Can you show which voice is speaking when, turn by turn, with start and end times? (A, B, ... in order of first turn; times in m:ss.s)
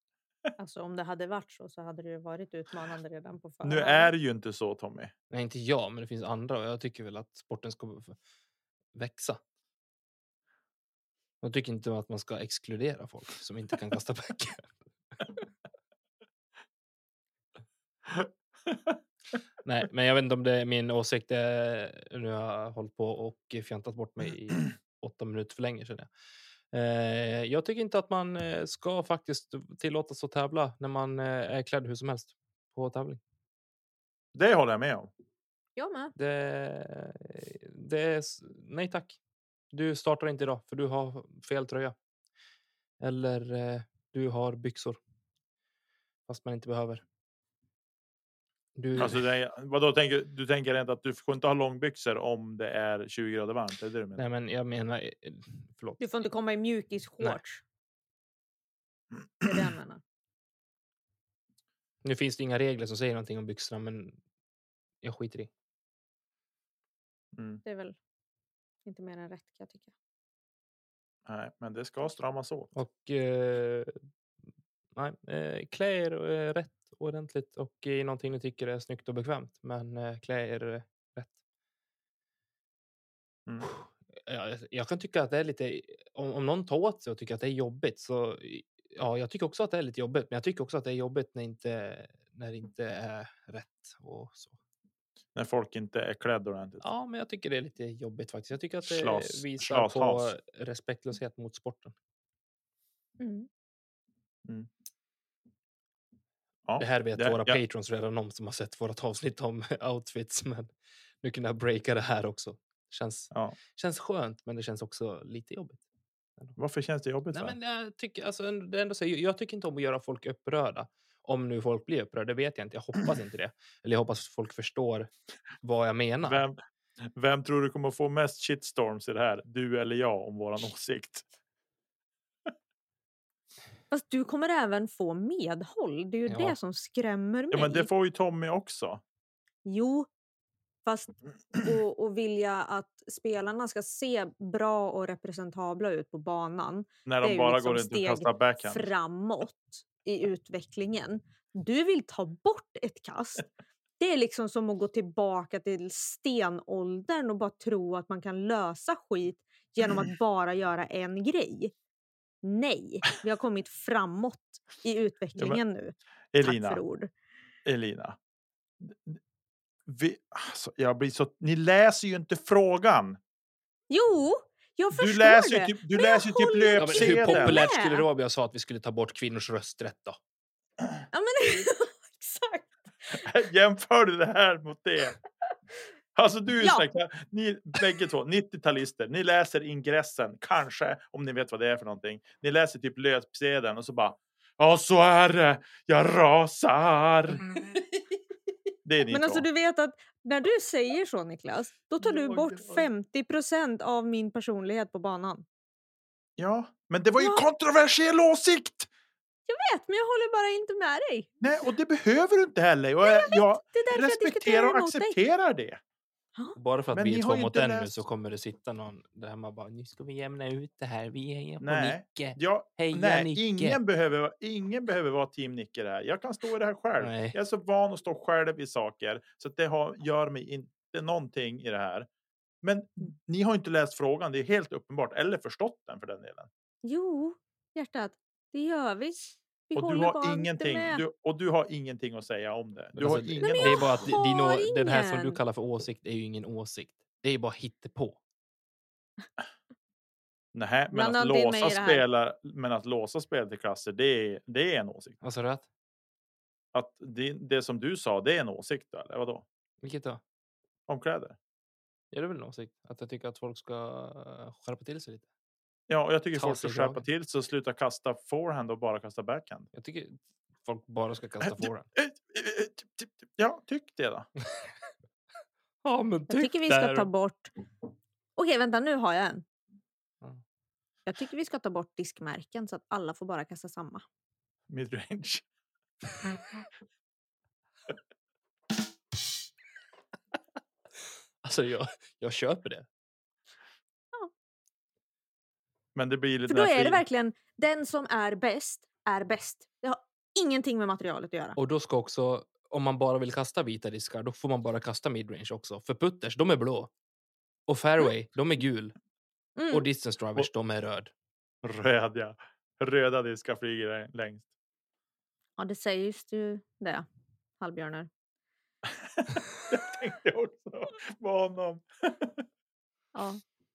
0:00.6-0:04.1 A
0:03.6-0:05.1 B
0:05.3-0:08.2 C
0:09.0-0:09.4 C
0:11.4-0:15.3 C
0:18.1-0:18.9 B
0:19.6-0:26.1 C
0:26.7-0:33.2 C
0:34.3-0:35.1 B
0:35.8-0:36.1 A
0:36.2-0:39.2 C
0:39.7-0:42.0 C
0:43.0-0:45.0 C
0:46.3-0:47.0 C
0:48.8-0:49.2 C
0:49.0-0:54.2 B
0:54.2-0:56.1 C
0:56.0-0:57.6 A
0:59.4-1:00.0 A
1:02.0-1:04.2 C
1:05.0-1:05.5 C
1:07.3-1:07.6 B
1:07.6-1:08.0 A
1:08.8-1:09.9 A
1:11.2-1:12.7 B
1:12.7-1:14.0 C
1:15.0-1:21.3 C
1:23.6-1:34.6 C
1:35.3-1:36.8 B
1:36.8-1:41.9 C
1:38.8-1:40.3 B
1:43.2-1:43.5 A
1:46.6-1:47.6 B
1:46.8-1:55.8 C
1:56.6-1:57.6 B
1:57.3-2:05.1 C
2:05.6-2:06.4 C
2:06.2-2:06.6 B
2:07.1-2:11.2 B
2:13.9-2:17.9 A
2:16.3-2:16.6 C
2:17.5-2:19.0 B
2:19.6-2:20.1 A
2:20.8-2:33.5 A
2:27.0-2:28.9 B
2:34.0-2:41.7 A
2:42.4-2:47.1 A
2:46.3-2:46.8 B
2:47.6-2:48.2 B
2:48.8-2:49.2 B
2:49.9-2:53.2 B
2:53.9-2:58.0 A
2:55.0-2:57.6 B
2:56.8-3:00.2 C
3:01.1-3:03.2 A
3:03.2-3:05.2 B
3:06.2-3:17.4 B
3:06.6-3:06.9 A
3:18.8-3:19.4 B
3:19.1-3:25.4 A
3:22.0-3:22.8 C
3:26.4-3:28.9 B
3:27.2-3:27.4 A
3:29.5-3:31.3 A
3:31.4-3:35.8 B
3:33.0-3:35.2 A
3:36.6-3:43.8 C
3:36.9-3:38.0 B
3:41.6-3:52.1 B
3:47.0-3:47.4 C
3:52.6-3:56.5 B
3:56.8-4:01.0 A
3:59.7-4:04.1 B
4:03.0-4:08.2 C
4:03.4-4:05.4 A
4:10.5-4:15.2 B
4:10.9-4:12.0 A
4:15.2-4:15.6 C
4:16.7-4:19.4 B
4:19.8-4:20.2 C
4:20.9-4:21.4 B
4:22.1-4:25.2 C
4:25.9-4:29.7 B
4:26.3-4:27.0 C
4:29.7-4:31.9 C
4:31.5-4:34.3 B
4:35.8-4:37.1 C
4:36.3-4:37.5 A
4:38.4-4:39.4 A
4:41.0-4:44.0 A
4:44.7-4:45.4 B
4:51.4-4:52.9 C
4:55.9-4:57.0 B
4:56.5-5:01.6 A
5:01.6-5:06.9 C
5:07.7-5:08.9 C
5:09.6-5:09.8 A
5:09.7-5:11.1 C
5:11.6-5:14.4 B
5:15.6-5:17.0 A
5:17.6-5:18.1 A
5:19.1-5:22.4 B
5:23.1-5:23.4 A